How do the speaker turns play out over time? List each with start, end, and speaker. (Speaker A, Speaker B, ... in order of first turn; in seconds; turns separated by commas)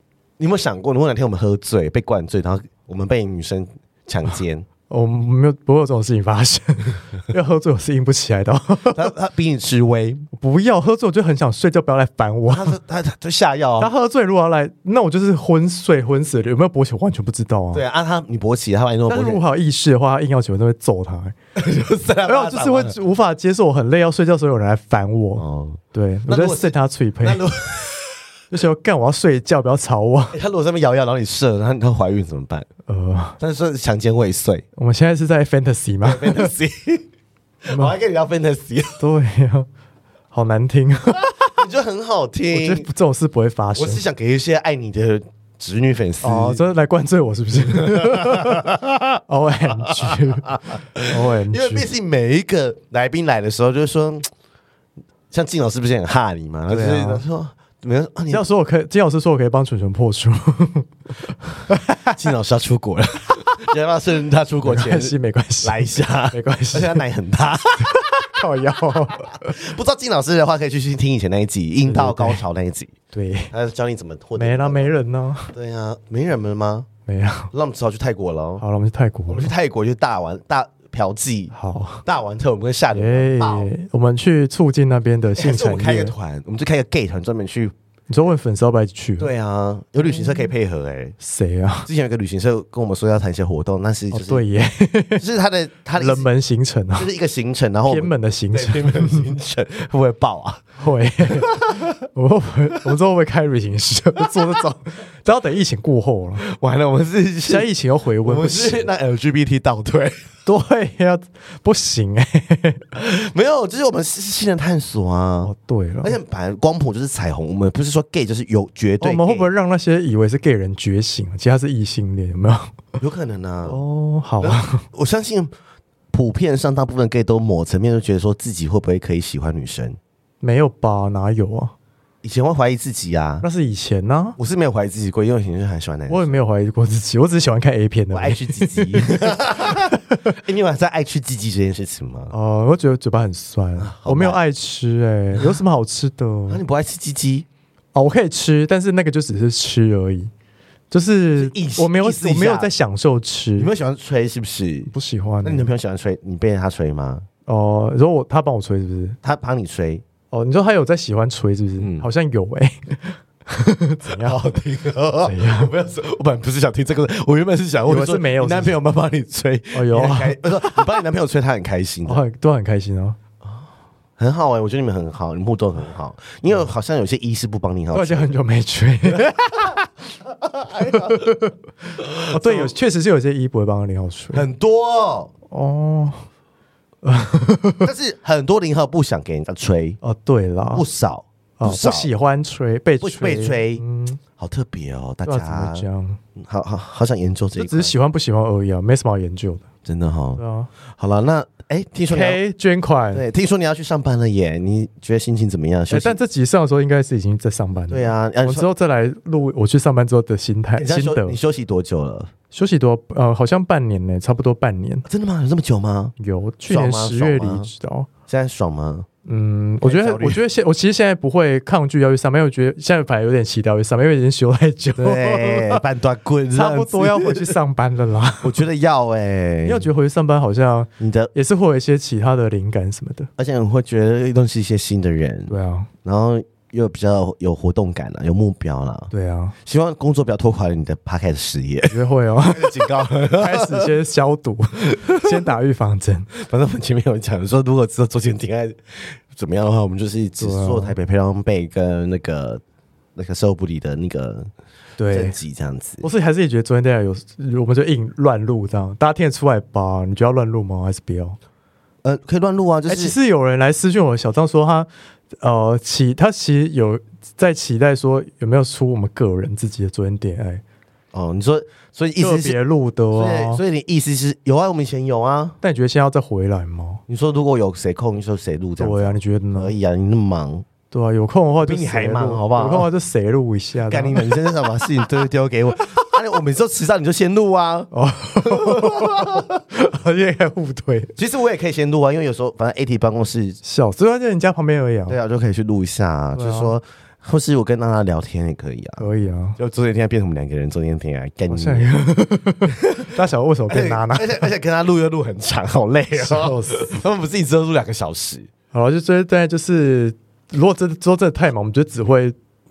Speaker A: 0.4-4.7, Speaker B: 4.9-9.1, Speaker A: 8.9-10.2, Speaker B: 10.3-12.8, Speaker A: 12.5-13.9, Speaker B: 13.8-17.8, Speaker A: 17.7-19.4, Speaker B: 19.1-21.4, Speaker A: 21.6-22.9, Speaker B: 22.2-27.4, Speaker A: 25.4-28.2, Speaker B: 28.5-30.4, Speaker A: 30.3-32.7, Speaker B: 32.9-33.4, Speaker A: 33.4-34.6, Speaker B: 34.8-36.5, Speaker A: 36.0-37.1, Speaker A: 37.6-39.0, Speaker B: 37.7-38.0, Speaker B: 39.0-39.7, Speaker B: 40.3-41.6, Speaker A: 41.5-42.9, Speaker B: 42.5-44.0, Speaker A: 43.7-46.6, Speaker B: 46.2-48.8, Speaker A: 47.7-49.0, Speaker B: 49.3-51.9, Speaker A: 49.7-54.3, Speaker A: 55.3-58.4, Speaker B: 56.7-57.2, Speaker B: 58.3-60.9, Speaker B: 61.7-62.2, Speaker A: 62.1-68.3, Speaker B: 64.6-67.0, Speaker B: 67.9-69.6, Speaker A: 69.2-72.9, Speaker B: 71.8-72.4, Speaker B: 73.1-73.5, Speaker A: 73.5-74.9, Speaker B: 74.3-75.5, Speaker A: 75.5-76.9, Speaker B: 77.1-77.5, Speaker A: 77.5-78.6, Speaker B: 78.6-79.5, Speaker A: 79.3-81.5, Speaker B: 81.5-82.0, Speaker A: 82.0-83.7, Speaker B: 82.9-86.1, Speaker A: 85.4-87.7, Speaker B: 88.1-89.3, Speaker A: 89.2-91.2, Speaker B: 91.2-91.9, Speaker A: 91.8-94.4, Speaker B: 94.1-95.2, Speaker A: 95.2-96.3, Speaker B: 96.0-97.1, Speaker A: 96.9-100.6, Speaker B: 97.8-99.3, Speaker B: 100.8-106.4, Speaker A: 101.2-101.9, Speaker A: 106.4-110.2, Speaker B: 107.5-108.9, Speaker B: 110.5-112.8, Speaker A: 112.9-115.5, Speaker B: 115.4-116.2, Speaker A: 116.0-119.5, Speaker B: 119.0-122.8, Speaker A: 123.0-123.8, Speaker B: 123.7-124.8, Speaker A: 124.4-125.5, Speaker A: 126.1-130.0, Speaker B: 130.4-131.7, Speaker A: 132.2-133.4, Speaker B: 133.4-134.4, Speaker A: 134.4-136.3, Speaker B: 136.1-140.3, Speaker A: 138.1-142.3, Speaker B: 142.3-146.6, Speaker A: 143.8-144.4, Speaker A: 145.3-145.6, Speaker A: 146.5-147.5, Speaker B: 147.9-150.3, Speaker B: 150.9-153.7, Speaker A: 151.3-152.7, Speaker A: 153.6-154.9, Speaker B: 154.9-155.7, Speaker A: 155.4-157.2, Speaker B: 157.5-159.2, Speaker A: 159.2-160.0, Speaker B: 160.3-164.4, Speaker A: 161.8-162.1, Speaker A: 164.0-172.2, Speaker B: 165.2-165.7, Speaker B: 167.8-168.8, Speaker B: 169.7-170.8, Speaker B: 172.0-173.2, Speaker A: 174.2-178.3, Speaker B: 177.9-179.9, Speaker A: 180.4-181.3, Speaker B: 180.7-181.6, Speaker A: 182.0-182.7, Speaker B: 182.3-184.5, Speaker A: 184.3-185.3, Speaker B: 185.5-186.2, Speaker B: 187.0-187.9, Speaker A: 187.8-190.0, Speaker B: 190.0-190.8, Speaker A: 190.7-192.1, Speaker B: 191.6-194.2, Speaker A: 193.0-193.8, Speaker A: 194.4-197.9, Speaker B: 195.2-196.2, Speaker B: 197.6-199.6, Speaker A: 199.8-202.4, Speaker B: 200.4-200.7, Speaker B: 202.1-203.2, Speaker A: 203.1-206.2, Speaker B: 205.9-211.4, Speaker A: 207.9-208.7, Speaker A: 210.8-212.3, Speaker B: 212.5-215.1, Speaker A: 215.1-216.1, Speaker B: 216.2-218.1, Speaker A: 216.7-217.7, Speaker A: 218.3-219.1, Speaker B: 219.2-225.8, Speaker A: 219.8-220.4, Speaker A: 225.0-227.5, Speaker B: 226.5-228.6, Speaker A: 228.4-229.9, Speaker B: 229.6-233.3, Speaker A: 231.0-231.3, Speaker A: 233.4-239.1, Speaker B: 235.5-235.9, Speaker B: 239.1-239.6, Speaker A: 239.6-243.9, Speaker B: 241.9-246.3, Speaker A: 244.8-245.3, Speaker A: 246.3-252.6, Speaker B: 250.4-250.9, Speaker A: 253.2-254.5, Speaker B: 255.0-255.3, Speaker A: 255.1-256.1, Speaker B: 256.0-261.4, Speaker A: 262.0-263.1, Speaker B: 262.9-264.9, Speaker B: 265.4-270.6, Speaker A: 271.1-272.6, Speaker B: 272.2-273.6, Speaker A: 273.1-275.6, Speaker B: 275.6-277.0, Speaker A: 277.1-280.6, Speaker B: 278.8-279.7, Speaker B: 280.9-285.2, Speaker A: 281.6-282.9, Speaker A: 283.9-289.4, Speaker B: 285.8-286.1, Speaker B: 287.9-291.1, Speaker A: 291.2-293.6, Speaker B: 293.6-295.2, Speaker A: 295.1-299.1, Speaker B: 296.3-296.7, Speaker B: 299.0-299.6, Speaker A: 299.6-301.9, Speaker B: 301.5-304.5, Speaker A: 302.8-303.1, Speaker A: 303.7-308.5, Speaker B: 306.1-307.0, Speaker B: 308.7-312.4